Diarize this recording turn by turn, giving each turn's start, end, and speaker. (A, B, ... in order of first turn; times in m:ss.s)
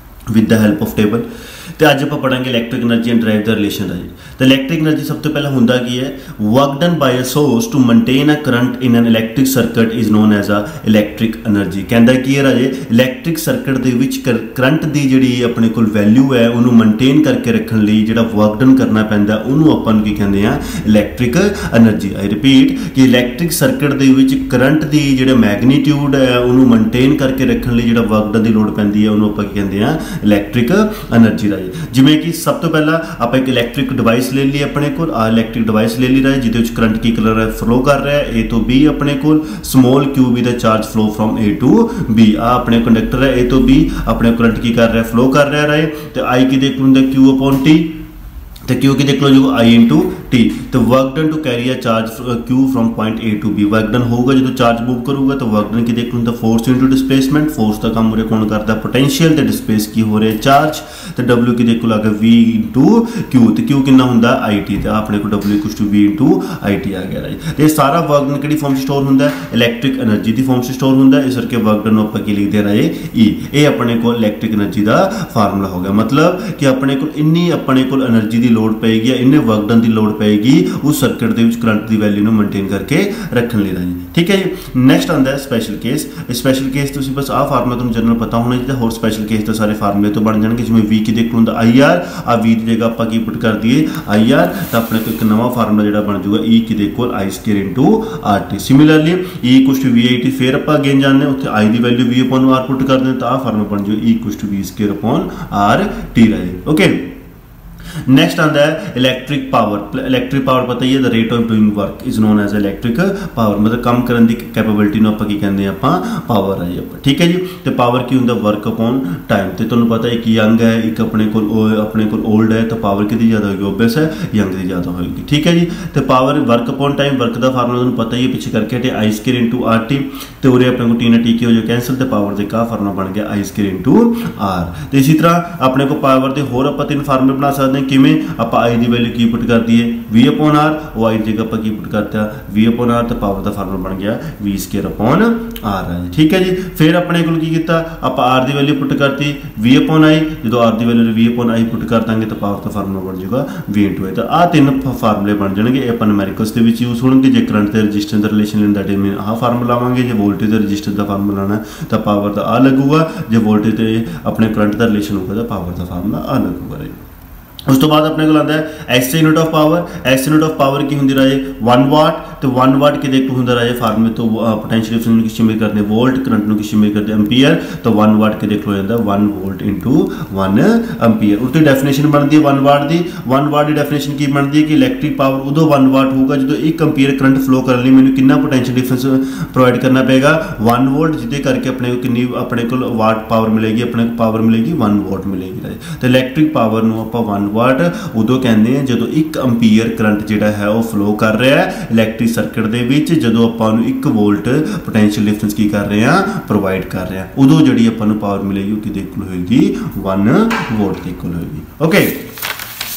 0:00.3-0:01.3 A
0:01.8-0:48.0 A
0:48.7-1:47.2 A
1:48.1-2:47.0 A
2:47.7-3:32.2 A